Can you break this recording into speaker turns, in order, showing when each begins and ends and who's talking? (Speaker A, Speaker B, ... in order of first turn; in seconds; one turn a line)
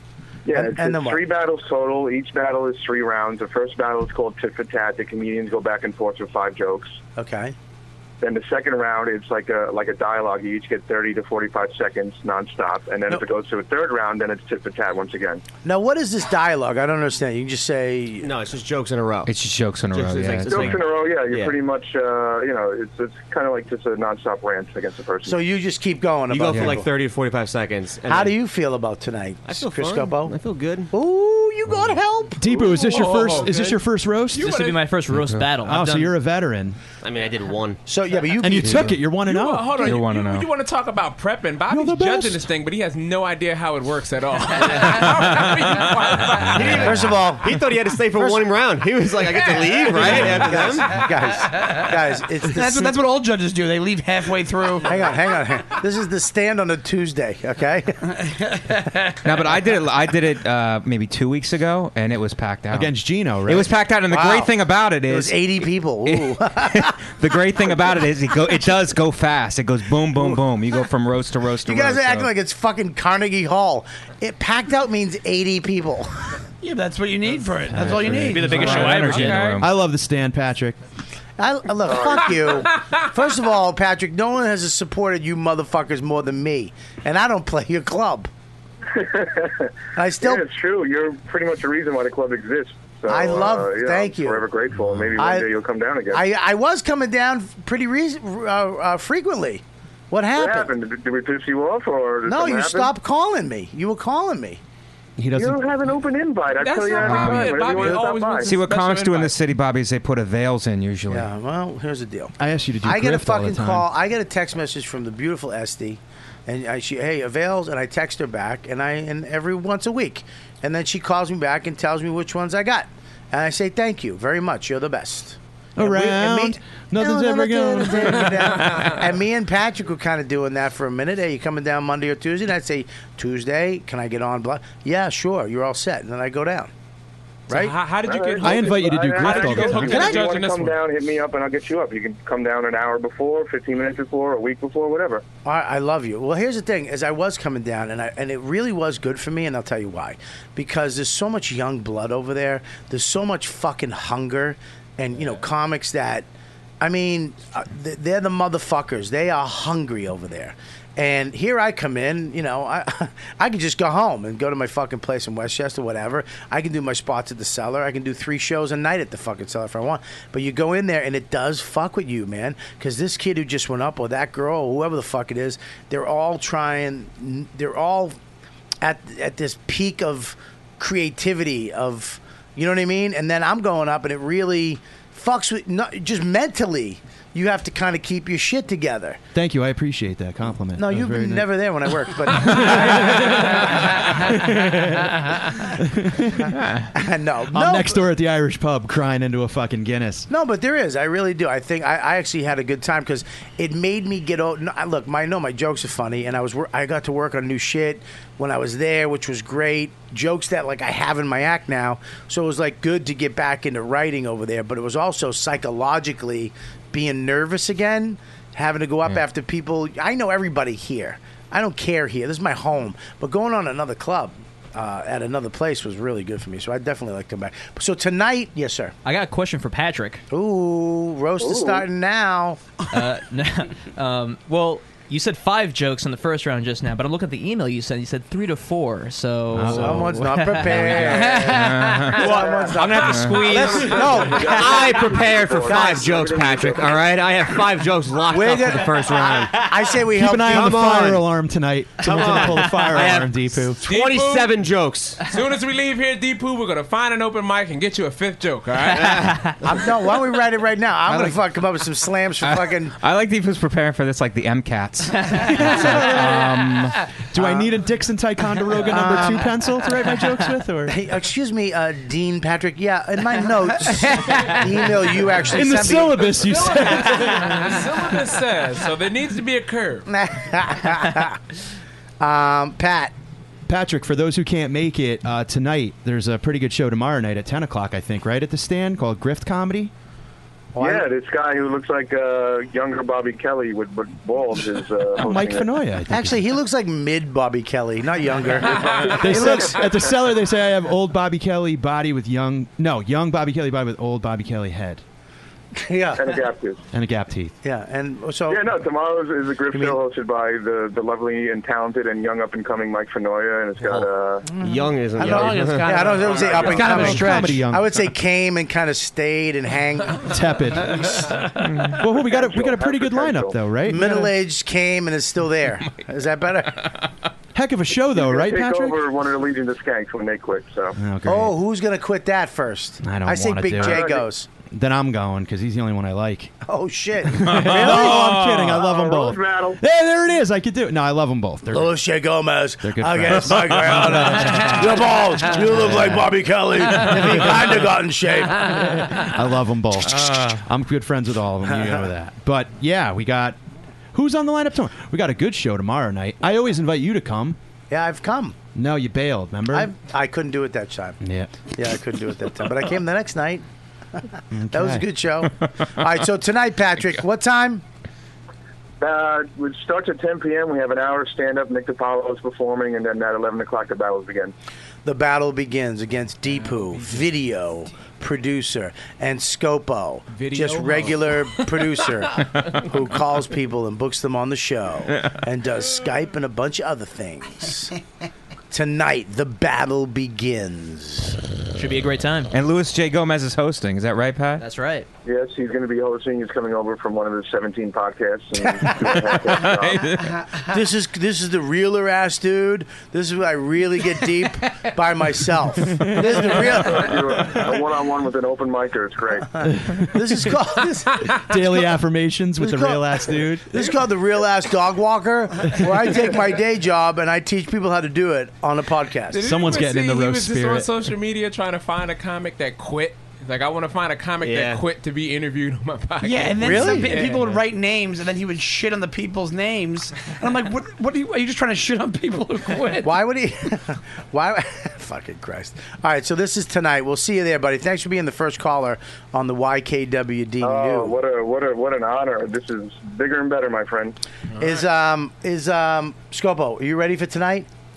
Speaker A: 0.5-7.0
Speaker B: 0.5-1.2
Speaker B: 7.2-7.5
Speaker A: 8.2-15.4
Speaker B: 15.6-18.3
Speaker C: 18.2-19.3
Speaker D: 19.3-20.8
Speaker C: 19.9-21.6
Speaker A: 20.5-25.4
Speaker B: 25.2-26.9
Speaker C: 26.3-28.4
Speaker B: 28.1-30.4
Speaker C: 29.4-30.9
Speaker B: 30.9-33.0
Speaker E: 32.4-34.5
Speaker F: 32.7-33.8
Speaker F: 34.3-34.8
Speaker G: 34.4-36.1
Speaker D: 35.1-35.5
Speaker E: 35.6-36.8
Speaker C: 37.0-37.8
Speaker B: 37.9-39.0
Speaker E: 38.4-40.0
Speaker F: 39.2-47.0
Speaker D: 39.8-40.5
Speaker E: 41.7-42.5
Speaker C: 46.5-51.0
Speaker B: 46.8-47.5
Speaker B: 48.2-48.5
Speaker B: 49.7-53.0
Speaker H: 52.5-55.0
Speaker B: 54.8-58.0
Speaker D: 59.2-62.9
Speaker E: 62.7-63.7
Speaker D: 63.5-65.5
Speaker B: 64.1-66.9
Speaker D: 66.1-72.3
Speaker B: 71.7-76.3
Speaker H: 76.6-79.1
Speaker E: 77.7-80.8
Speaker G: 78.2-79.6
Speaker D: 78.3-79.7
Speaker F: 79.2-79.5
Speaker B: 81.4-88.3
Speaker A: 81.8-82.6
Speaker A: 88.9-96.2
Speaker B: 90.0-90.5
Speaker B: 93.1-94.5
Speaker B: 95.2-95.5
Speaker B: 96.1-100.7
Speaker A: 100.3-102.9
Speaker B: 102.3-104.6
Speaker E: 105.2-105.6
Speaker A: 105.3-108.5
Speaker F: 106.6-109.3
Speaker D: 107.0-107.8
Speaker D: 108.4-111.3
Speaker B: 111.1-136.7
Speaker E: 112.4-113.9
Speaker E: 125.8-128.9
Speaker B: 137.5-137.8
Speaker F: 137.5-140.8
Speaker A: 138.0-145.2
Speaker E: 138.4-140.2
Speaker B: 139.8-140.3
Speaker B: 145.4-156.3
Speaker B: 156.8-178.2
Speaker B: 178.8-189.2
Speaker E: 189.3-191.5
Speaker B: 190.8-194.1
Speaker E: 192.3-196.5
Speaker B: 196.9-198.0
Speaker E: 197.5-200.3
Speaker B: 200.3-228.9
Speaker G: 229.1-230.2
Speaker B: 230.3-232.6
Speaker A: 231.4-231.9
Speaker G: 232.9-242.2
Speaker E: 239.5-240.2
Speaker B: 239.7-246.3
Speaker D: 241.5-242.3
Speaker A: 242.2-247.1
Speaker F: 242.7-244.6
Speaker D: 242.9-243.5
Speaker G: 243.2-243.6
Speaker C: 244.4-249.9
Speaker B: 248.3-251.2
Speaker E: 250.1-253.8
Speaker C: 250.5-251.2
Speaker C: 252.0-255.2
Speaker F: 253.8-254.5
Speaker F: 255.2-259.3
Speaker C: 259.0-259.2
Speaker G: 259.2-259.5
Speaker B: 259.6-262.9
Speaker D: 261.1-261.4
Speaker D: 262.4-266.2
Speaker E: 265.4-271.0
Speaker B: 267.4-267.7
Speaker B: 268.9-269.5
Speaker B: 270.9-276.7
Speaker E: 275.5-277.8
Speaker F: 276.4-280.1
Speaker B: 280.1-281.4
Speaker B: 282.2-283.1
Speaker E: 283.7-289.9
Speaker B: 290.8-291.1
Speaker A: 290.8-295.7
Speaker E: 295.2-296.4
Speaker B: 296.1-299.8
Speaker E: 299.1-305.0
Speaker B: 305.8-306.4
Speaker A: 306.2-306.8
Speaker E: 306.9-307.5
Speaker B: 307.6-308.8
Speaker A: 308.5-314.5
Speaker B: 309.7-310.0
Speaker B: 313.9-320.3
Speaker C: 314.6-316.6
Speaker H: 315.2-317.6
Speaker A: 316.4-316.7
Speaker E: 316.8-317.9
Speaker E: 320.3-321.1
Speaker B: 320.9-321.2
Speaker D: 321.6-321.9
Speaker E: 321.9-324.2
Speaker A: 322.2-323.6
Speaker B: 323.8-327.0
Speaker H: 324.0-324.3
Speaker E: 327.5-329.0
Speaker A: 328.1-331.0
Speaker E: 331.0-331.6
Speaker B: 331.2-334.5
Speaker E: 333.0-334.1
Speaker A: 333.8-334.3
Speaker E: 334.7-336.5
Speaker B: 336.6-338.3
Speaker E: 337.4-341.9
Speaker A: 338.7-339.8
Speaker B: 341.7-349.2
Speaker E: 342.8-344.8
Speaker E: 345.8-346.2
Speaker E: 349.1-353.6
Speaker B: 351.7-352.1
Speaker E: 354.1-357.6
Speaker B: 357.9-358.6
Speaker E: 358.8-359.9
Speaker B: 359.7-361.2
Speaker E: 361.2-361.5
Speaker B: 361.8-363.6
Speaker E: 364.5-365.1
Speaker B: 364.7-367.8
Speaker A: 369.0-374.5
Speaker B: 375.1-387.9
Speaker F: 376.7-377.0
Speaker F: 380.3-381.7
Speaker B: 388.7-391.4
Speaker G: 391.8-392.5
Speaker D: 392.5-394.6
Speaker G: 394.6-395.1
Speaker A: 395.2-400.1
Speaker D: 399.6-400.3
Speaker B: 400.6-407.8
Speaker A: 406.5-409.5
Speaker B: 409.6-411.4
Speaker E: 409.7-410.4
Speaker E: 411.4-414.0
Speaker B: 412.6-419.4
Speaker F: 419.3-427.6
Speaker E: 419.4-420.9
Speaker C: 424.4-424.8
Speaker H: 426.2-433.1
Speaker B: 426.6-427.3
Speaker B: 433.0-441.2
Speaker A: 440.6-444.2
Speaker B: 444.6-447.7